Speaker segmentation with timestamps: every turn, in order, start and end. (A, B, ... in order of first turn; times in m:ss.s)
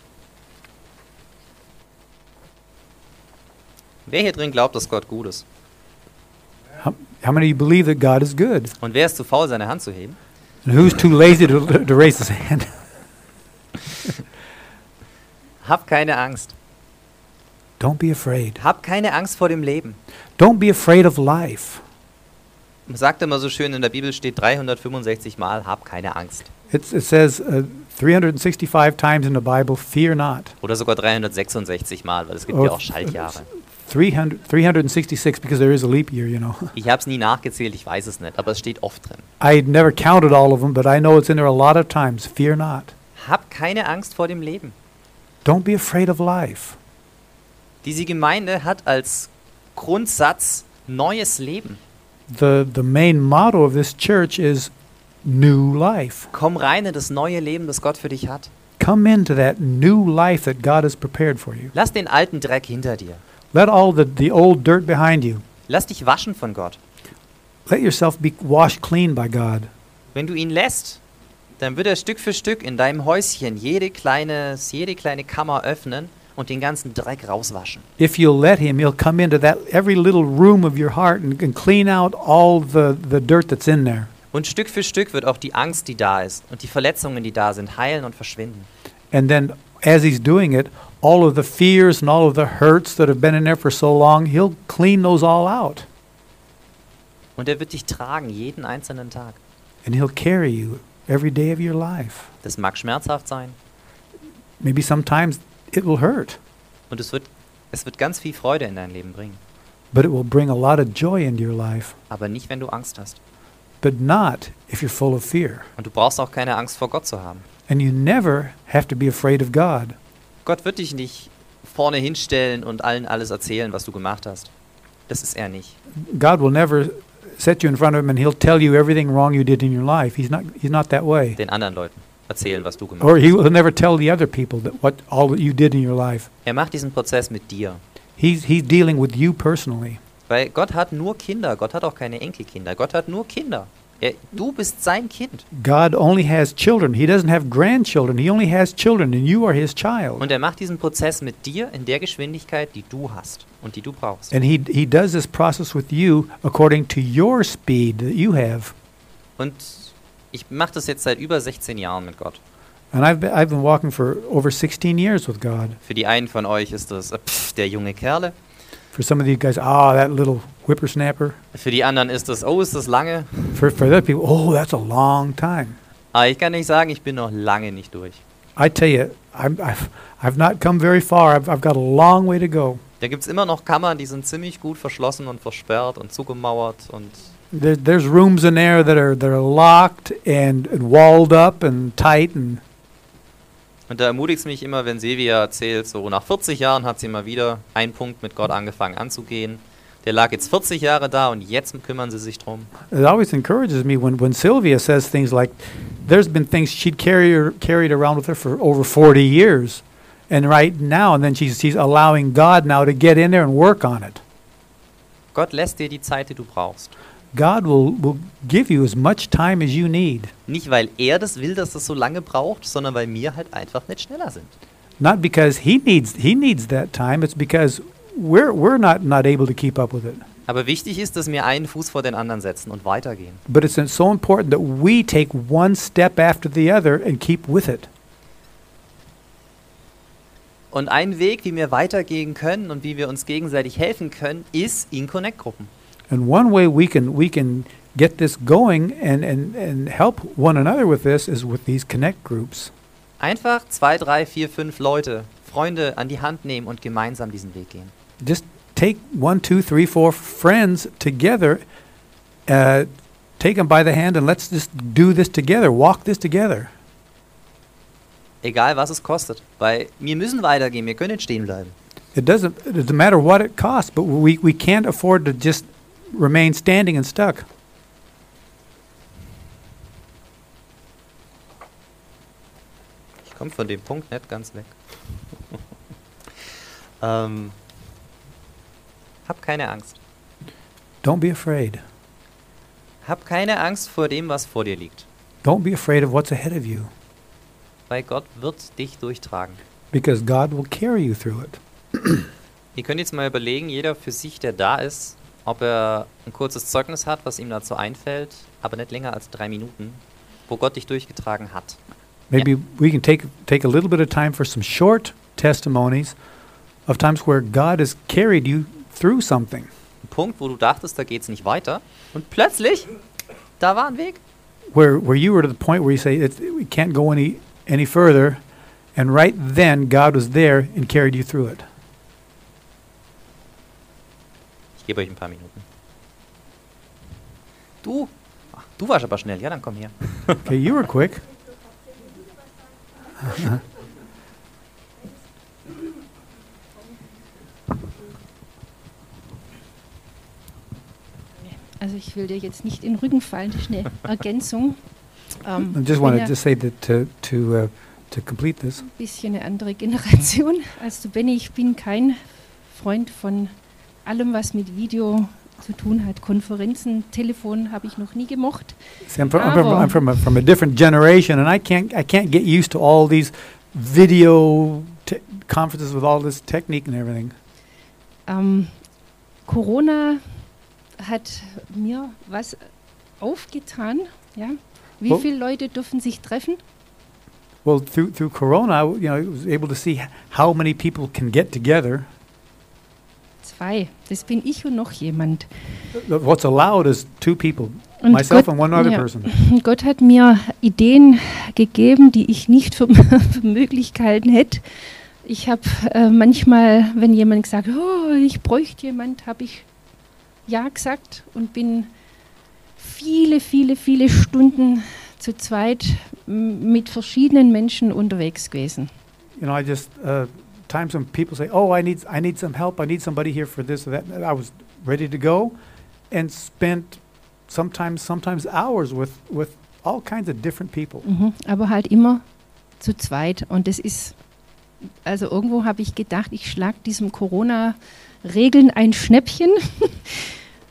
0:04.1-0:05.4 A
0:06.8-0:08.7 B
0:08.8-0:10.2 A
0:10.6-0:12.7 B
0:15.6-0:16.6 A
0:17.8-0:18.6 B
0:18.6-0:20.0 A
0:20.4-0:21.8 B
0:22.9-0:26.5 A
0:26.7-0:30.5 B
0:30.6-0:33.5 A
0:32.5-0:36.7 B
0:36.8-0:39.3 A
0:39.4-0:42.9 B
0:43.2-0:44.8 A
0:45.4-0:46.8 B
0:47.8-0:51.8 A
0:52.3-0:54.7 B
0:55.2-0:56.3 B
0:56.3-0:58.5 A
0:58.8-1:01.7 B
1:01.7-1:03.2 A
1:03.5-1:05.4 B
1:05.7-1:06.8 A
1:07.7-1:09.7 B
1:10.2-1:11.0 A
1:11.6-1:17.8 A
1:18.0-1:24.1 B
1:24.3-1:28.7 A
1:29.1-1:35.9 B
1:37.4-1:39.4 A
1:39.8-1:42.3 B
1:42.4-1:43.6 A
1:44.6-1:46.4 B
1:46.9-1:49.4 A
1:49.9-1:52.0 B
1:52.1-1:53.2 A
1:53.8-1:55.7 B
1:55.8-1:57.4 A
1:57.7-2:00.0 B
2:00.4-2:04.5 A
2:05.1-2:05.8 A
2:06.0-2:11.4 B
2:11.4-2:13.3 A
2:13.0-2:16.3 B
2:16.4-2:17.8 A
2:18.2-2:20.0 B
2:20.3-2:25.4 A
2:25.5-2:30.2 B
2:30.2-2:34.3 A
2:34.3-2:38.7 B
2:39.4-2:42.4 A
2:42.9-2:45.8 B
2:45.8-2:48.4 A
2:48.9-2:51.4 B
2:51.5-2:53.7 A
2:53.5-2:55.8 B
2:56.1-2:58.2 A
2:58.6-3:02.8 B
3:03.0-3:07.3 A
3:07.5-3:12.6 B
3:13.9-3:22.7 A
3:22.9-3:34.2 B
3:35.3-3:37.0 A
3:37.3-3:40.3 B
3:40.5-3:44.5 A
3:45.0-3:50.2 B
3:50.5-3:53.4 A
3:53.5-3:57.9 B
4:00.7-4:05.7 A
4:06.1-4:12.7 B
4:13.2-4:17.9 A
4:18.2-4:21.6 B
4:22.5-4:26.7 B
4:28.4-4:31.7 A
4:32.2-4:37.4 B
4:43.3-4:44.8 A
4:47.0-4:47.6 A
4:49.3-4:50.0 A
4:51.0-4:51.8 B
4:53.0-4:55.1 A
4:55.4-4:56.9 B
4:57.9-4:59.6 A
4:59.9-5:02.3 B
5:02.8-5:11.8 A
5:12.3-5:16.2 B
5:16.9-5:19.7 B
5:20.0-5:22.9 A
5:23.6-5:24.2 A
5:24.7-5:28.4 B
5:29.0-5:31.6 B
5:34.8-5:35.6 A
5:37.8-5:40.5 A
5:40.4-5:41.2 B
5:43.3-5:43.6 B
5:51.7-5:54.8 C
5:55.4-5:56.3 C
5:55.6-5:58.8 B
5:58.8-6:02.2 C
6:02.7-6:03.5 C
6:04.0-6:08.8 C
6:09.1-6:17.4 B
6:09.4-6:10.1 C
6:18.3-6:18.7 C
6:19.5-6:20.2 C
6:21.0-6:22.6 C
6:23.2-6:26.6 C
6:27.6-6:32.1 B
6:33.4-6:35.5 C
6:35.9-6:39.3 B
6:38.0-6:49.7 C
6:50.5-6:51.9 C
6:52.8-6:58.9 C
6:59.4-7:05.5 B
7:06.1-7:11.0 B
7:11.0-7:12.2 C
7:12.8-7:14.2 C
7:15.0-7:20.3 C